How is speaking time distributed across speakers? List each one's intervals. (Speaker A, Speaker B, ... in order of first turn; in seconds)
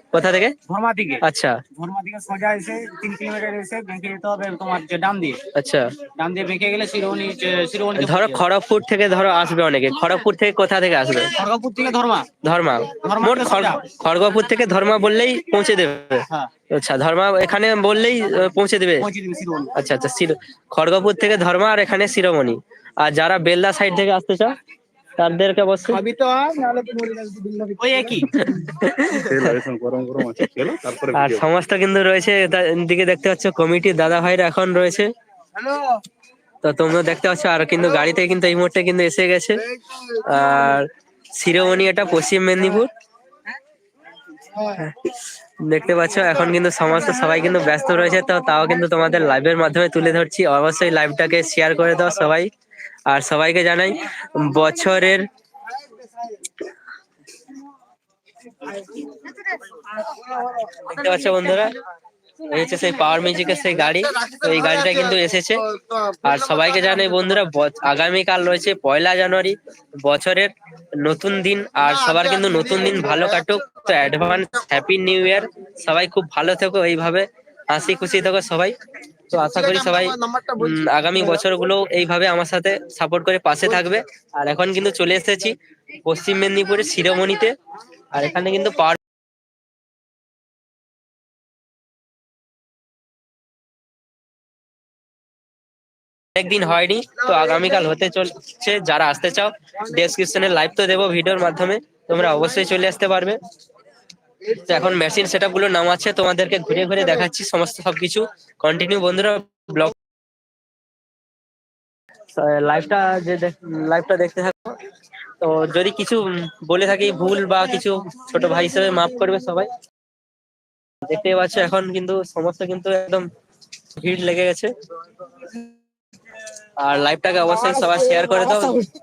Speaker A: 0.1-0.6, 1.2-1.6, 5.5-5.9, 8.0-11.3, 12.4-19.1, 19.8-24.6, 25.2-26.0, 28.4-29.5, 31.1-35.1, 36.6-42.9, 44.6-45.0, 45.6-52.5, 53.1-55.3, 60.9-61.8, 62.5-65.7, 66.2-78.8, 79.3-87.5, 88.1-89.0, 96.3-103.4, 104.5-110.0, 112.3-114.8, 115.4-119.7, 121.0-123.3, 124.0-124.7, 126.8-128.8
Speaker B: 0.7-1.2, 1.8-5.4, 6.2-8.4, 11.4-12.3, 13.0-13.8, 19.0-19.7, 25.9-28.5
Speaker C: 26.9-28.1, 29.3-31.5